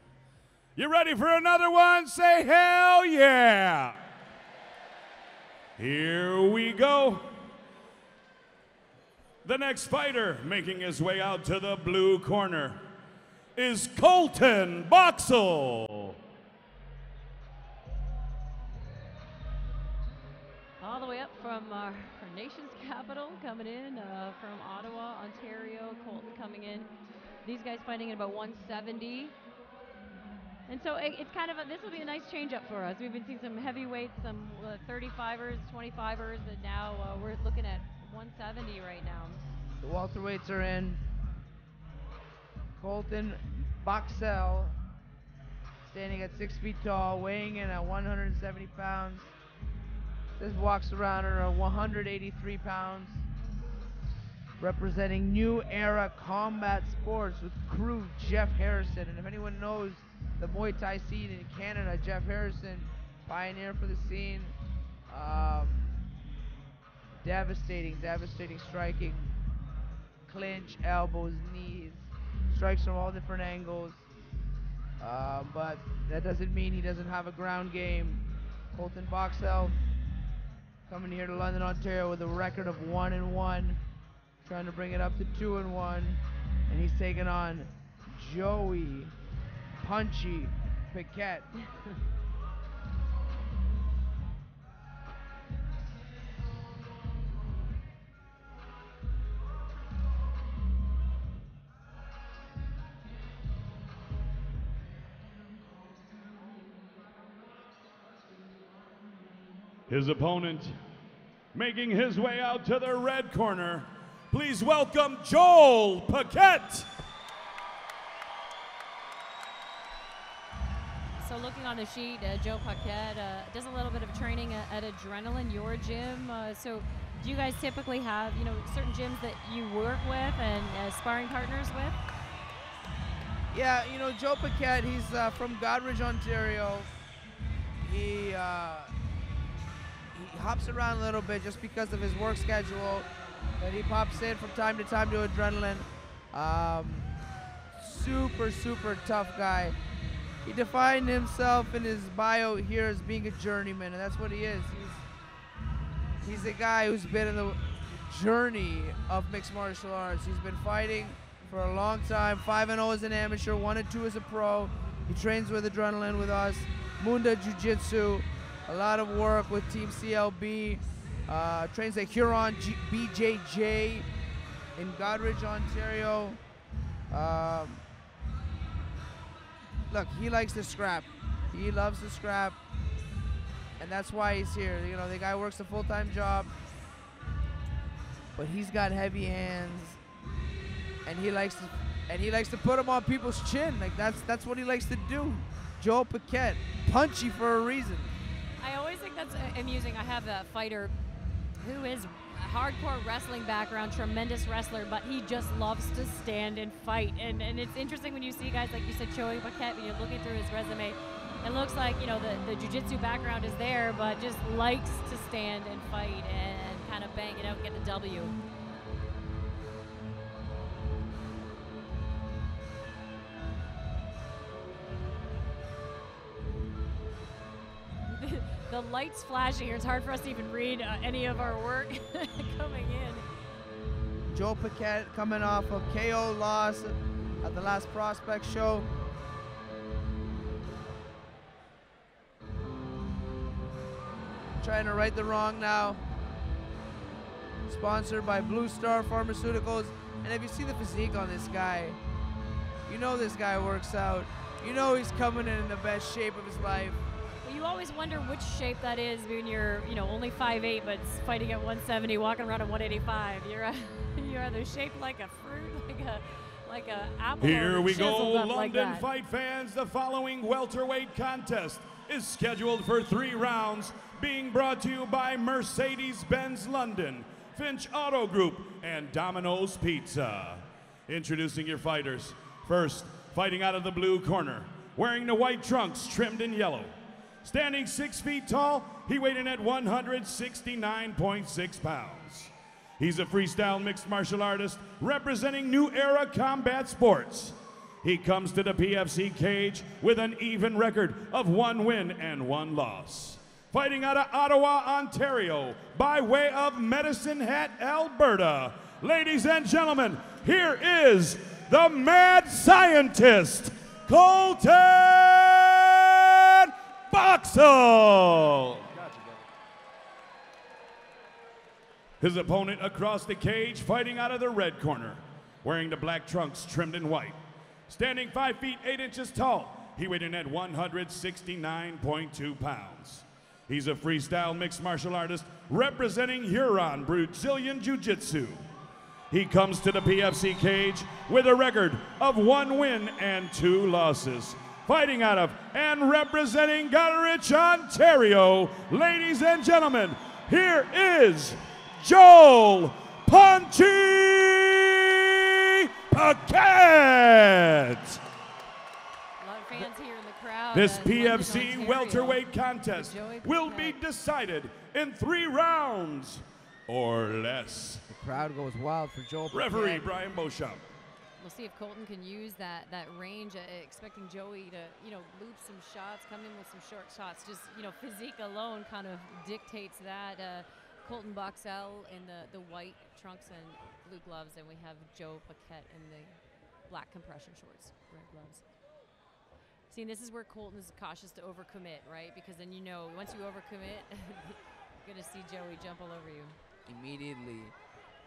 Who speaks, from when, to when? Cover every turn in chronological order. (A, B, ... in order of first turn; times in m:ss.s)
0:00.8-0:04.0 A
0:05.8-0:07.3 A
0:09.4-0:12.8 A
0:13.6-0:16.2 A
0:20.8-0:26.9 B
0:27.4-0:29.4 B
0:30.7-0:39.4 B
0:39.8-0:41.0 C
0:42.8-0:44.8 C
0:45.9-0:49.3 C
0:50.4-0:53.3 C
0:54.6-1:04.6 C
1:05.1-1:06.0 C
1:07.2-1:09.2 C
1:10.3-1:14.0 C
1:15.0-1:19.8 C
1:20.9-1:23.8 C
1:24.4-1:29.2 C
1:29.8-1:31.5 C
1:49.9-1:50.8 A
1:51.5-1:56.9 A
2:01.2-2:12.0 B
2:13.5-2:16.9 C
2:17.8-2:18.9 C
2:20.1-2:23.1 C
2:23.6-2:27.1 C
2:27.7-2:29.8 C
2:30.4-2:35.0 C
2:36.2-2:54.1 C
2:54.8-2:56.4 C
2:57.1-2:57.8 C
2:59.9-3:02.6 C
3:03.8-3:06.5 C
3:08.4-3:10.0 C
3:11.0-3:18.1 C
3:18.6-3:20.9 B
3:21.6-3:38.4 B
3:48.1-3:53.3 B
3:54.3-3:58.9 C
4:04.6-4:06.0 C
4:07.7-4:12.0 C
4:12.9-4:17.0 C
4:17.4-4:29.1 B
4:27.4-4:46.9 A
4:47.4-5:19.4 A
5:22.2-5:27.4 A
5:27.9-5:38.6 A
5:39.3-5:58.2 A
5:59.4-6:04.0 B
6:00.7-6:08.0 A
6:08.1-6:10.1 C
6:09.5-6:10.8 A
6:11.4-6:28.6 B
6:29.9-6:36.6 B
6:36.9-6:37.7 C